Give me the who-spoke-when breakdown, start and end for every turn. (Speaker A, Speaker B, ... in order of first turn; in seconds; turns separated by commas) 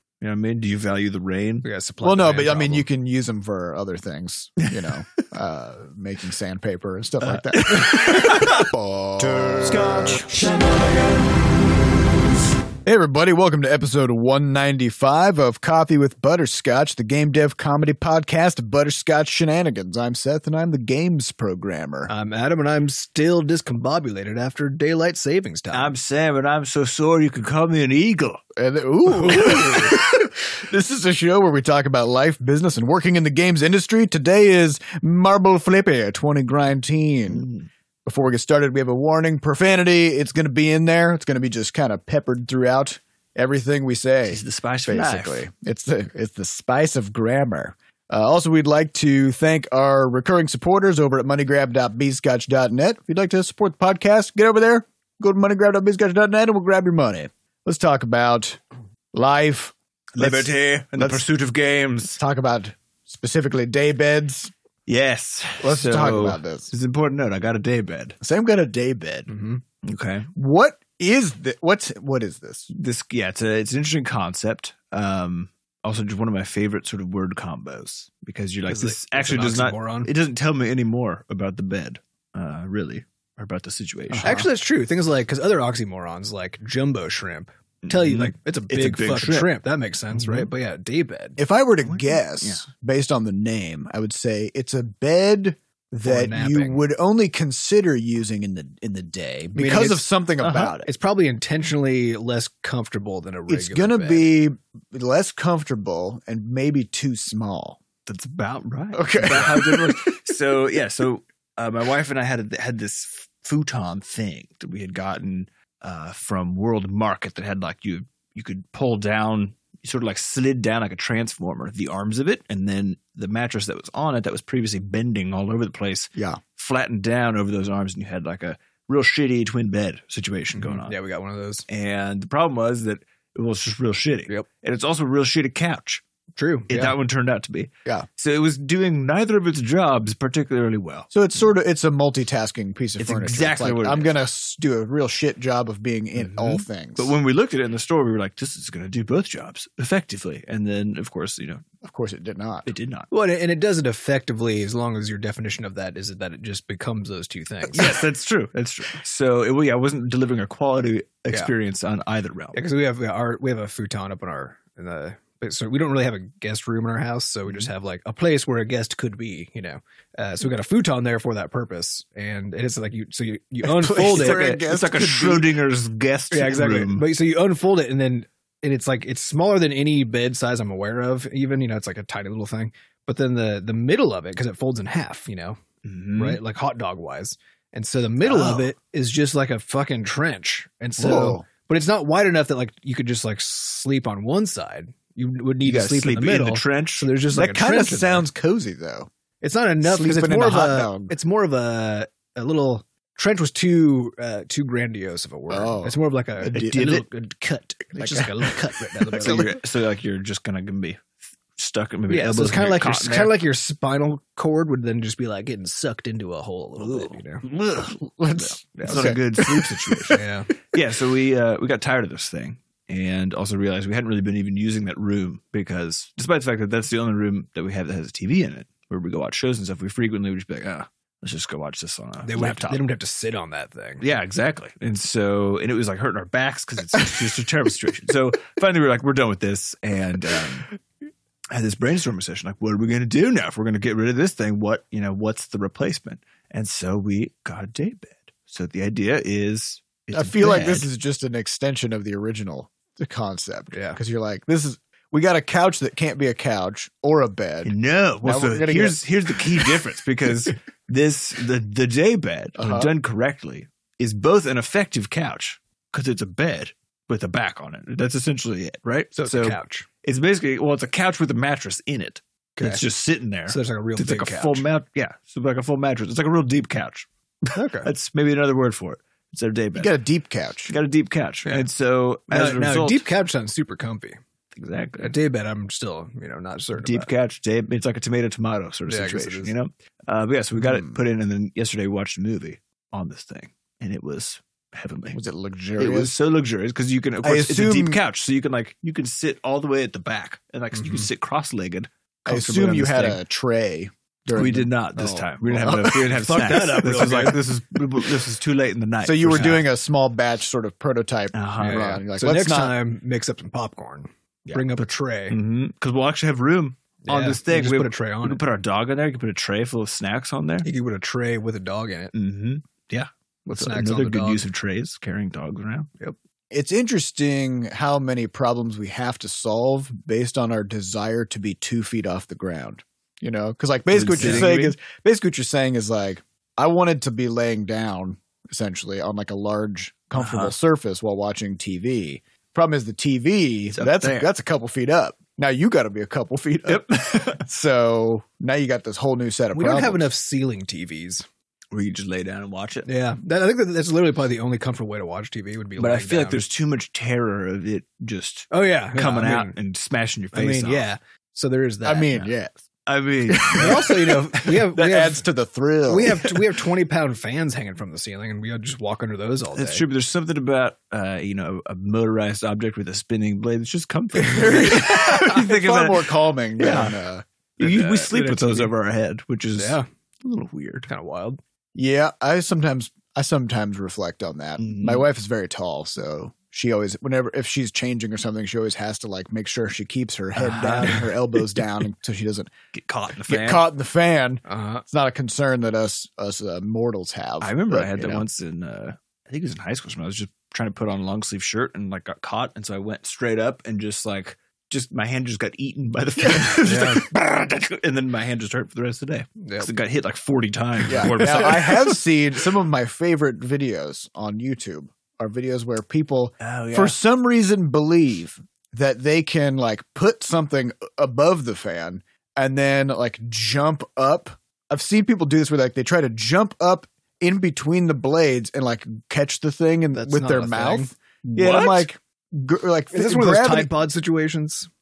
Speaker A: 0.2-1.7, Speaker B: 1.6-2.9, Speaker C: 2.0-10.6, Speaker A: 7.2-8.7, Speaker A: 9.6-11.3, Speaker C: 12.8-22.1, Speaker B: 22.1-25.9, Speaker A: 25.7-28.4, Speaker C: 28.6-37.5, Speaker B: 29.1-30.0, Speaker A: 29.2-30.0, Speaker A: 37.3-37.7, Speaker C: 38.0-58.6, Speaker A: 44.3-45.5, Speaker C: 59.1-61.2, Speaker A: 60.1-62.2, Speaker C: 62.2-64.5, Speaker A: 64.9-68.2, Speaker C: 65.6-66.7, Speaker C: 68.2-69.3, Speaker B: 69.3-69.6, Speaker A: 69.8-70.3, Speaker C: 70.3-72.7, Speaker A: 72.7-84.4, Speaker B: 78.7-80.1, Speaker C: 84.1-84.5, Speaker B: 84.2-91.4, Speaker A: 87.8-89.5, Speaker A: 90.1-90.5, Speaker C: 91.4-100.9, Speaker A: 91.9-92.6, Speaker B: 96.0-96.9, Speaker B: 99.5-100.1, Speaker A: 100.4-100.7, Speaker B: 100.8-104.3, Speaker C: 103.5-107.8, Speaker A: 108.1-130.9, Speaker C: 108.9-110.2, Speaker C: 126.2-126.4, Speaker B: 130.6-131.7, Speaker A: 131.7-136.0, Speaker B: 136.4-137.0, Speaker A: 136.7-141.1, Speaker C: 141.1-147.1, Speaker A: 143.0-144.2, Speaker A: 146.2-151.6, Speaker C: 151.8-152.7, Speaker A: 152.7-153.1, Speaker B: 153.1-158.0, Speaker A: 157.7-162.6, Speaker B: 162.5-174.6, Speaker C: 173.7-175.5, Speaker A: 173.9-177.1, Speaker B: 176.3-185.6, Speaker A: 185.8-186.4, Speaker B: 186.2-198.2, Speaker A: 188.2-188.7, Speaker C: 191.0-191.5, Speaker A: 195.6-197.1, Speaker C: 197.3-199.1, Speaker B: 199.4-209.6, Speaker C: 199.8-201.1, Speaker C: 205.5-206.9, Speaker A: 206.5-207.1, Speaker C: 208.0-208.6, Speaker C: 209.1-209.4, Speaker A: 209.1-213.3, Speaker B: 212.1-217.4, Speaker A: 216.8-232.8, Speaker C: 218.0-220.2, Speaker B: 218.8-219.2, Speaker B: 220.1-220.5, Speaker B: 232.2-234.0, Speaker A: 234.0-240.7, Speaker A: 241.5-250.9, Speaker C: 250.1-259.7, Speaker B: 253.7-254.0, Speaker A: 257.6-279.9, Speaker C: 262.6-262.9, Speaker B: 269.2-269.9, Speaker B: 272.6-272.8, Speaker B: 273.5-274.7, Speaker B: 277.5-277.9, Speaker C: 279.8-280.7, Speaker A: 280.7-283.0, Speaker B: 282.3-284.2, Speaker A: 284.5-285.1, Speaker B: 285.0-287.1, Speaker A: 286.8-295.2, Speaker B: 288.9-289.5, Speaker C: 290.7-291.0, Speaker C: 295.1-296.2, Speaker A: 295.8-303.2, Speaker C: 297.2-298.0, Speaker B: 300.7-301.1, Speaker C: 302.3-306.0, Speaker A: 304.3-309.6, Speaker B: 305.7-307.4, Speaker C: 309.0-312.7, Speaker A: 311.3-312.0, Speaker B: 311.6-315.4, Speaker A: 314.8-320.7, Speaker B: 317.1-318.4, Speaker B: 320.6-322.1, Speaker A: 322.1-325.9, Speaker B: 323.5-324.4, Speaker C: 326.5-350.1, Speaker A: 333.9-334.8, Speaker B: 334.2-334.5, Speaker A: 340.2-340.6, Speaker A: 343.7-344.3, Speaker A: 346.7-347.4, Speaker B: 349.6-351.2, Speaker A: 351.7-352.9, Speaker B: 352.9-356.4, Speaker A: 355.8-360.9, Speaker B: 358.5-359.6, Speaker B: 360.3-362.3, Speaker C: 361.8-362.6, Speaker A: 362.9-364.7, Speaker C: 363.3-366.4, Speaker B: 363.5-365.2, Speaker B: 365.9-369.9, Speaker A: 369.5-377.0, Speaker B: 374.2-375.0, Speaker C: 374.4-377.2, Speaker A: 377.6-380.9, Speaker B: 377.6-378.7, Speaker B: 379.6-379.9, Speaker B: 380.9-381.4, Speaker C: 381.8-392.5, Speaker A: 384.6-385.1, Speaker A: 390.4-391.1, Speaker A: 392.7-393.6, Speaker C: 393.2-398.2, Speaker B: 394.5-394.8, Speaker A: 397.4-412.0, Speaker B: 406.6-407.1, Speaker B: 409.4-409.7, Speaker B: 410.9-411.7, Speaker C: 410.9-433.7, Speaker A: 416.4-417.0, Speaker B: 429.9-430.9, Speaker A: 431.4-431.9, Speaker B: 432.9-434.7